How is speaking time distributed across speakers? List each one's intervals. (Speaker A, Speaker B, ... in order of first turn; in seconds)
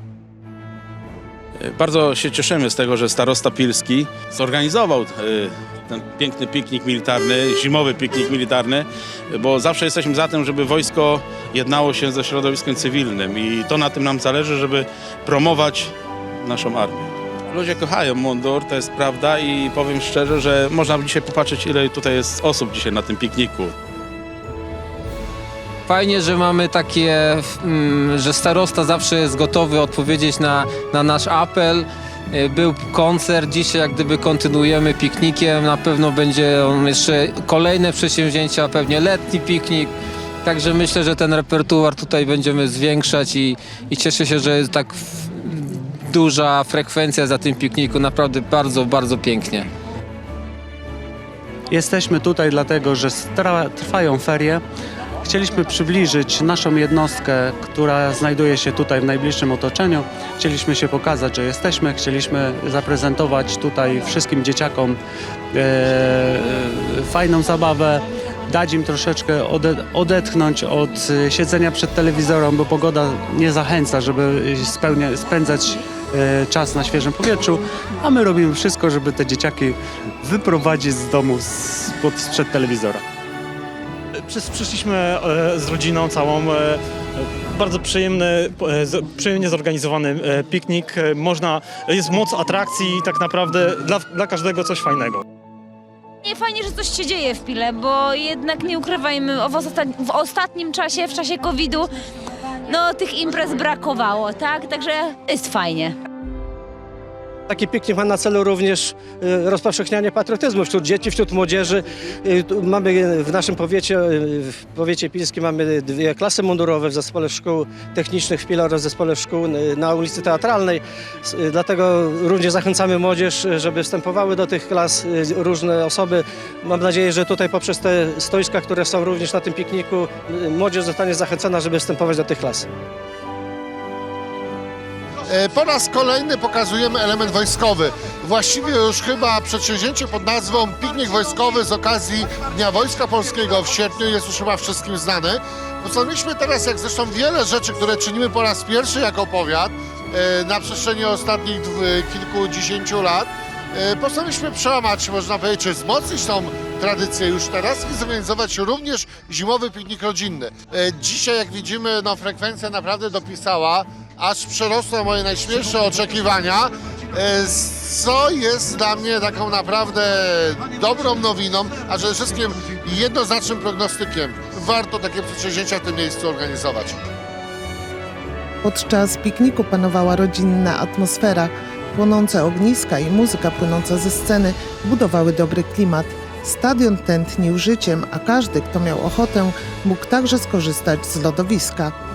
Speaker A: 1.7-15.9, 16.4-16.9, 17.5-23.7
Speaker B: 25.9-39.9, 40.4-49.7
Speaker C: 51.7-54.6, 55.2-65.0, 65.5-83.0
Speaker D: 84.3-95.2
Speaker E: 96.2-101.9, 102.7-106.0
Speaker F: 107.5-132.7
Speaker G: 135.3-177.1
Speaker H: 178.6-191.9